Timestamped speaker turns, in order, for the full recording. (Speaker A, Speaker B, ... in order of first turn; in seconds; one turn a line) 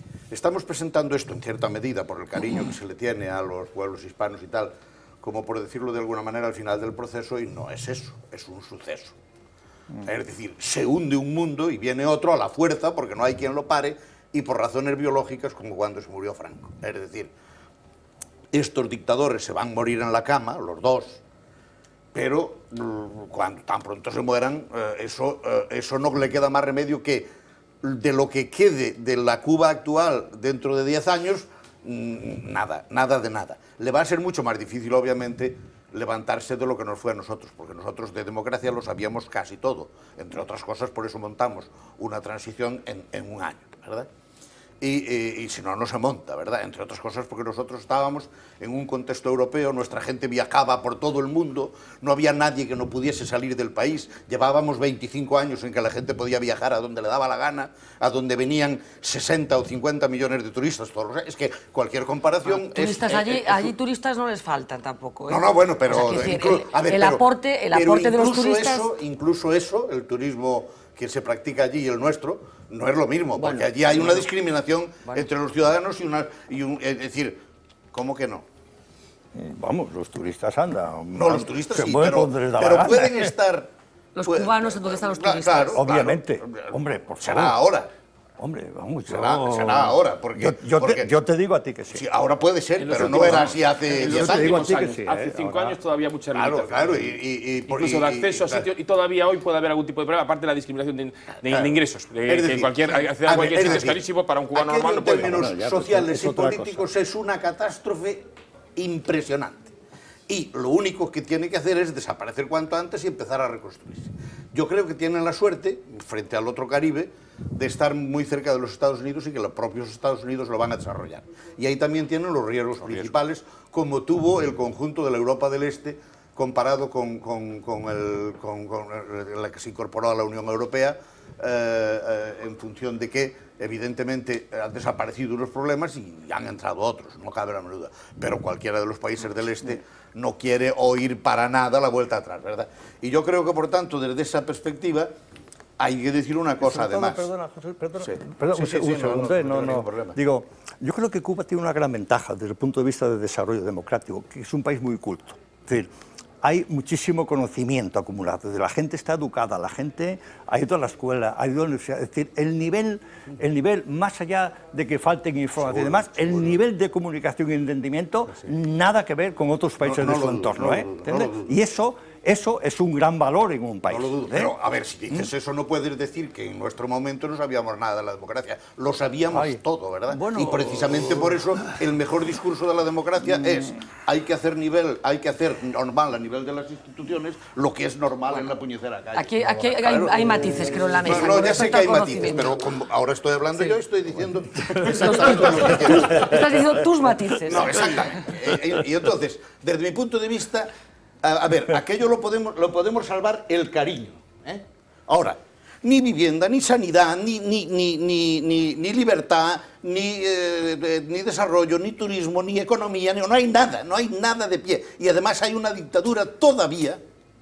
Speaker A: 0.3-9.2
Speaker A: 10.1-17.3
Speaker A: 18.5-21.2
Speaker A: 22.1-27.3
Speaker A: 27.8-44.1
Speaker A: 44.8-63.7
Speaker B: 62.5-68.9
Speaker A: 65.3-77.4
Speaker B: 73.4-74.2
Speaker A: 77.9-78.5
Speaker C: 79.3-83.3
Speaker A: 81.1-83.7
Speaker B: 84.1-85.8
Speaker A: 84.3-87.9
Speaker C: 85.7-87.6
Speaker C: 88.4-92.0
Speaker A: 89.1-91.1
Speaker A: 91.9-94.8
Speaker D: 92.8-97.1
Speaker C: 92.9-95.8
Speaker A: 96.3-98.7
Speaker D: 97.7-105.4
Speaker A: 101.5-101.7
Speaker A: 102.3-109.7
Speaker C: 105.0-106.9
Speaker A: 110.3-145.1
Speaker A: 145.8-147.3
Speaker C: 146.6-155.9
Speaker A: 148.0-150.2
Speaker C: 156.4-174.5
Speaker A: 165.6-166.6
Speaker A: 169.8-171.6
Speaker A: 173.9-196.6
Speaker C: 179.3-181.3
Speaker C: 183.2-183.8
Speaker B: 189.1-192.7
Speaker B: 194.8-198.1
Speaker A: 197.5-200.7
Speaker A: 201.2-217.0